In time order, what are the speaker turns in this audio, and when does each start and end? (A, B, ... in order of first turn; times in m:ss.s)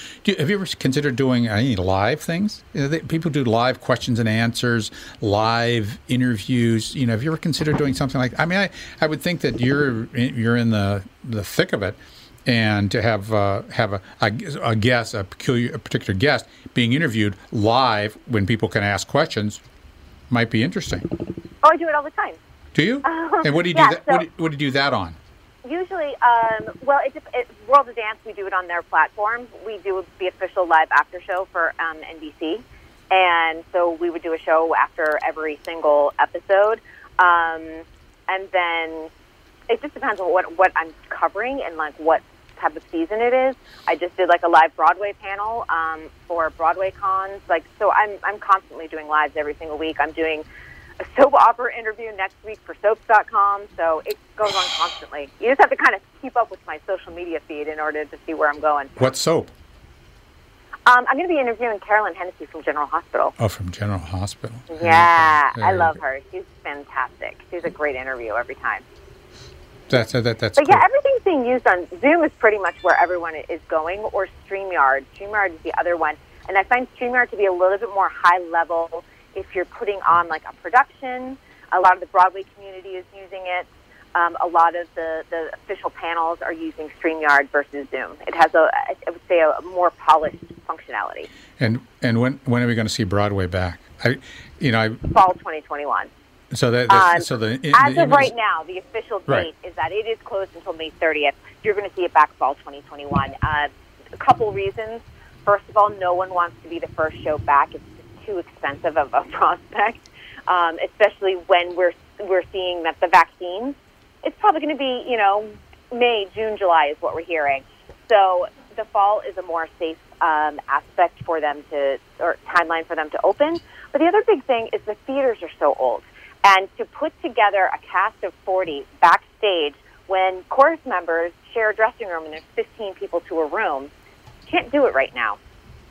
0:00.2-0:19.6 A
0:20.3-0:21.1 A
0:21.6-0:22.4 B
0:22.7-0:25.2 A
0:23.0-0:24.3 B
0:25.6-0:39.1 B
0:39.7-0:50.4 B
0:51.0-0:59.0 B
0:59.0-0:59.5 A
1:00.9-1:03.4 B
1:03.4-1:06.0 A
1:04.7-1:08.8 B
1:09.9-1:10.8 A
1:10.6-1:31.3 B
1:31.6-1:35.0 A
1:35.1-1:36.1 B
1:36.5-1:38.3 A
1:36.9-2:13.9 B
2:14.5-2:15.4 B